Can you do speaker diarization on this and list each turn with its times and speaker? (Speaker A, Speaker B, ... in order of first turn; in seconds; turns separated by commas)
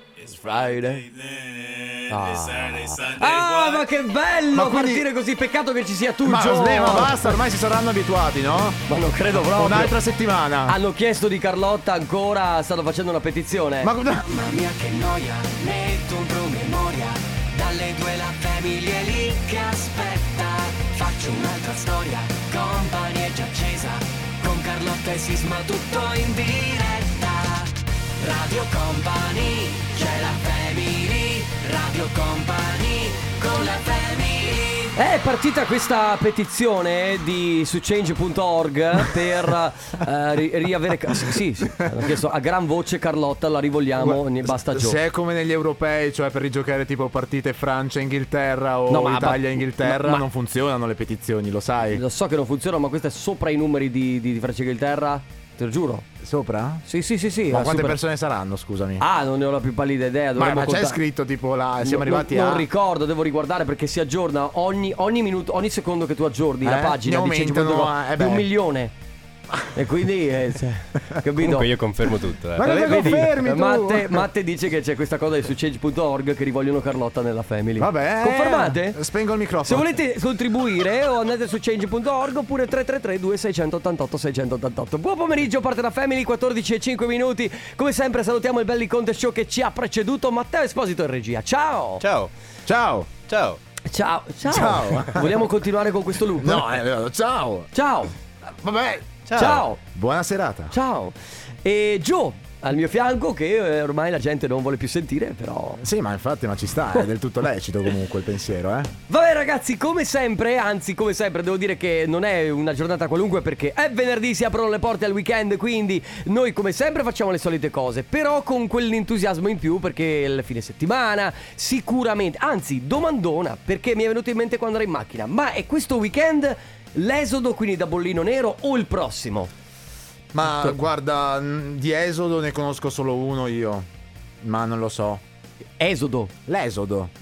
Speaker A: 0.2-1.1, Speaker B: 1.2-3.8, Speaker A: 2.1-7.4, Speaker C: 4.5-5.1, Speaker C: 6.2-8.8, Speaker A: 8.9-10.0, Speaker C: 9.3-10.8, Speaker A: 10.7-13.9, Speaker C: 13.8-14.4, Speaker D: 14.4-34.9, Speaker A: 14.7-19.0, Speaker A: 21.1-22.3, Speaker A: 22.9-23.8, Speaker A: 24.4-26.3, Speaker A: 34.9-45.0, Speaker C: 41.8-42.0, Speaker C: 44.0-52.0, Speaker A: 48.9-50.2, Speaker A: 51.9-56.1, Speaker C: 56.2-56.8, Speaker A: 56.9-58.0, Speaker C: 57.5-59.0, Speaker A: 59.0-61.0, Speaker C: 60.4-62.7, Speaker A: 61.8-68.9, Speaker C: 66.6-68.5, Speaker A: 69.7-71.7, Speaker B: 71.4-72.7, Speaker C: 72.5-74.3, Speaker A: 72.6-79.0, Speaker C: 77.8-79.9, Speaker A: 79.6-92.0, Speaker B: 92.0-92.3, Speaker C: 92.7-93.1, Speaker B: 93.3-93.6, Speaker A: 93.8-96.8, Speaker C: 94.5-95.5, Speaker C: 96.4-97.7, Speaker A: 97.7-98.2, Speaker C: 98.5-100.7, Speaker B: 99.3-99.6, Speaker A: 99.4-99.8, Speaker A: 100.7-105.8, Speaker C: 105.8-108.9, Speaker A: 109.1-129.5, Speaker C: 130.3-133.9, Speaker C: 134.4-135.2, Speaker A: 135.8-136.3, Speaker C: 136.5-137.1